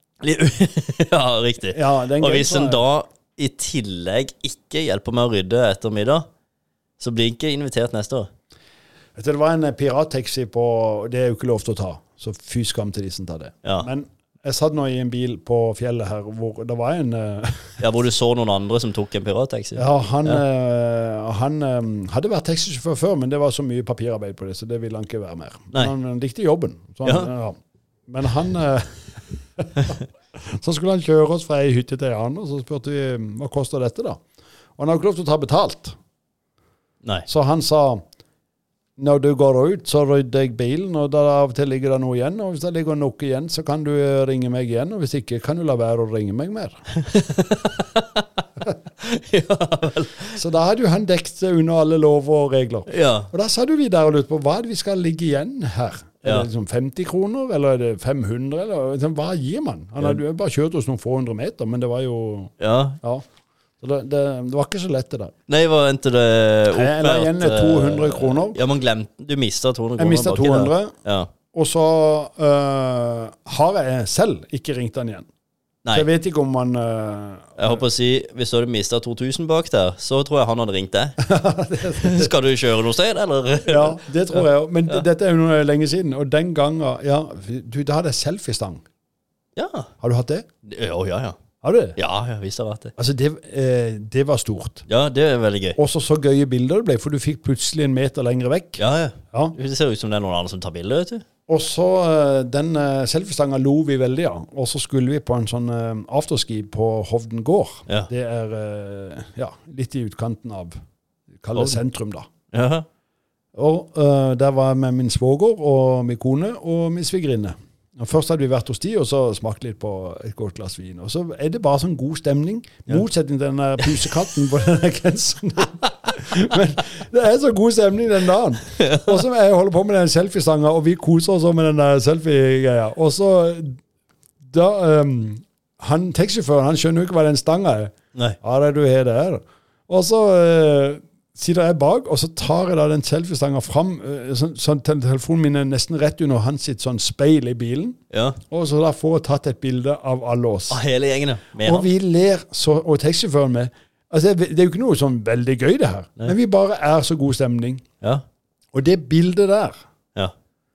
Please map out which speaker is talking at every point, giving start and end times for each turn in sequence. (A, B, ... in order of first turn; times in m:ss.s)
0:00.2-0:06.2 A
0:01.7-0:02.8 B
0:07.0-0:08.3 A
0:09.2-0:17.8 B
0:13.6-0:13.9 A
0:17.8-0:20.4 A
0:19.8-0:27.6 B
0:27.0-0:27.3 A
0:28.1-0:34.2 B
0:34.8-0:36.0 B
0:37.3-0:38.0 B
0:39.0-0:46.8 B
0:47.0-0:48.2 A
0:49.0-0:50.4 A
0:50.4-1:03.2 B
0:52.9-0:53.3 A
1:02.6-1:03.0 A
1:03.8-1:05.3 B
1:05.5-1:11.3 A
1:06.7-1:08.6 B
1:10.0-1:10.9 B
1:11.5-1:15.3 B
1:15.9-1:17.8 B
1:17.6-1:21.2 A
1:21.2-1:22.3 B
1:21.8-1:25.0 A
1:23.7-1:28.8 B
1:29.6-1:29.9 A
1:30.0-1:30.4 B
1:30.6-1:31.4 A
1:31.6-1:32.0 B
1:32.0-1:32.9 A
1:33.0-1:34.8 B
1:34.9-1:35.8 A
1:35.8-1:39.5 B
1:38.8-1:41.2 A
1:41.5-1:50.8 B
1:51.4-1:52.3 B
1:52.5-1:52.8 A
1:53.5-2:13.8 B
2:08.8-2:09.1 A
2:14.4-2:28.0 B
2:28.1-2:28.4 A
2:28.5-2:30.8 B
2:30.7-2:31.9 A
2:31.6-2:37.8 B
2:38.7-2:39.8 B